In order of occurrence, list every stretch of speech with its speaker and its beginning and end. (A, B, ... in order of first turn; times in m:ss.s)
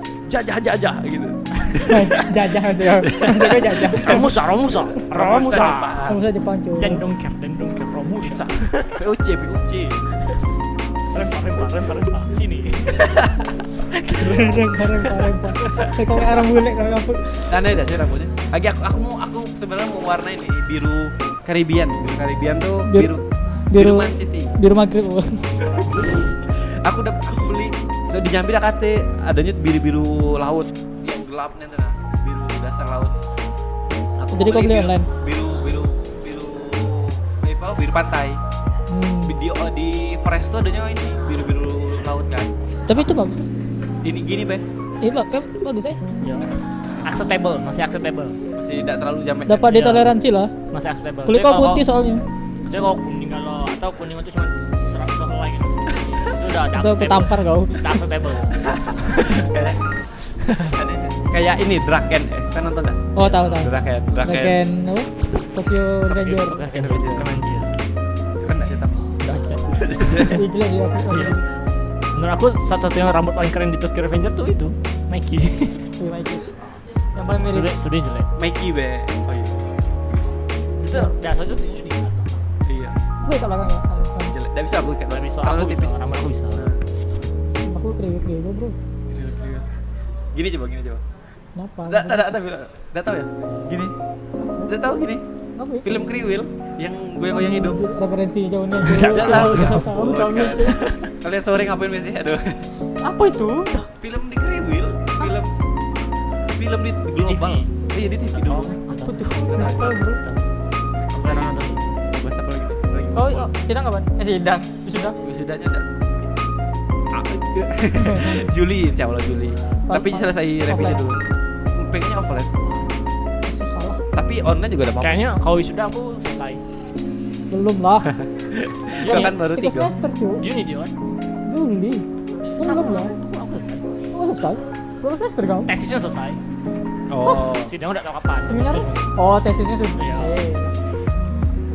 0:00.3-0:02.3 A
0:01.8-0:04.3 B
0:03.0-0:04.2 A
0:03.9-0:06.1 C
0:05.1-0:06.2 A
0:06.1-0:07.0 B
0:06.8-0:09.0 C
0:08.2-0:10.0 A
0:11.1-0:13.2 C
0:12.9-0:13.5 A
0:13.9-0:16.4 C
0:14.1-0:17.7 B
0:17.4-0:23.2 A
0:22.8-0:23.1 B
0:23.7-0:25.5 B
0:23.7-0:24.5 A
0:25.6-0:33.1 A
0:34.2-0:38.4 A
0:34.3-0:35.1 B
0:38.9-0:39.4 B
0:39.2-0:42.5 A
0:42.9-0:43.5 B
0:44.0-0:44.6 A
0:45.0-0:46.0 B
0:46.2-0:46.5 C
0:47.0-0:48.4 C
0:48.6-0:49.8 A
0:49.5-0:50.5 B
0:49.7-0:50.1 C
0:50.7-0:51.8 C
0:51.3-0:52.2 B
0:52.6-0:59.5 C
0:56.7-0:58.0 B
0:58.6-0:59.8 A
1:00.3-1:00.7 C
1:00.6-1:04.6 A
1:03.2-1:06.6 B
1:06.1-1:07.7 C
1:06.6-1:07.3 A
1:08.4-1:09.1 A
1:09.2-1:10.4 C
1:09.7-1:10.4 A
1:10.2-1:11.4 B
1:11.1-1:11.4 C
1:12.1-1:15.9 C
1:16.0-1:16.6 B
1:17.2-1:17.7 B
1:17.2-1:18.3 C
1:18.4-1:19.6 A
1:20.8-1:22.5 C
1:22.6-1:23.0 A
1:23.2-1:24.3 B
1:24.3-1:25.9 A
1:25.1-1:26.6 C
1:26.5-1:26.8 A
1:27.6-1:28.8 B
1:29.1-1:29.6 A
1:30.3-1:31.0 A
1:31.6-1:32.3 B
1:31.9-1:33.3 A
1:33.5-1:33.8 C
1:34.4-1:34.7 B
1:34.6-1:35.2 A
1:35.6-1:36.0 B
1:35.8-1:37.8 A
1:37.3-1:40.8 B
1:38.8-1:39.9 C
1:39.0-1:42.7 A
1:40.5-1:41.1 C
1:43.0-1:43.9 B
1:44.0-1:45.5 A
1:46.5-1:48.8 A
1:47.2-1:47.7 C
1:48.4-1:50.4 C
1:48.9-1:50.2 B
1:49.3-1:49.9 A
1:51.1-1:53.5 A
1:51.2-1:52.0 C
1:53.1-1:55.2 B
1:55.2-1:55.8 A
1:57.1-2:01.2 A
1:58.0-1:58.4 B
1:59.9-2:01.0 B
2:01.8-2:02.5 A
2:03.4-2:04.0 B
2:04.1-2:05.2 A
2:05.0-2:06.6 C
2:07.5-2:08.1 B
2:08.2-2:09.9 A
2:09.0-2:09.3 C
2:09.0-2:10.4 B
2:10.4-2:10.9 C
2:11.5-2:12.0 B
2:12.6-2:13.9 C
2:12.6-2:13.1 B
2:14.1-2:15.7 B
2:15.6-2:16.4 C
2:17.1-2:17.7 A
2:17.3-2:19.1 C
2:18.5-2:20.7 B
2:20.0-2:20.4 C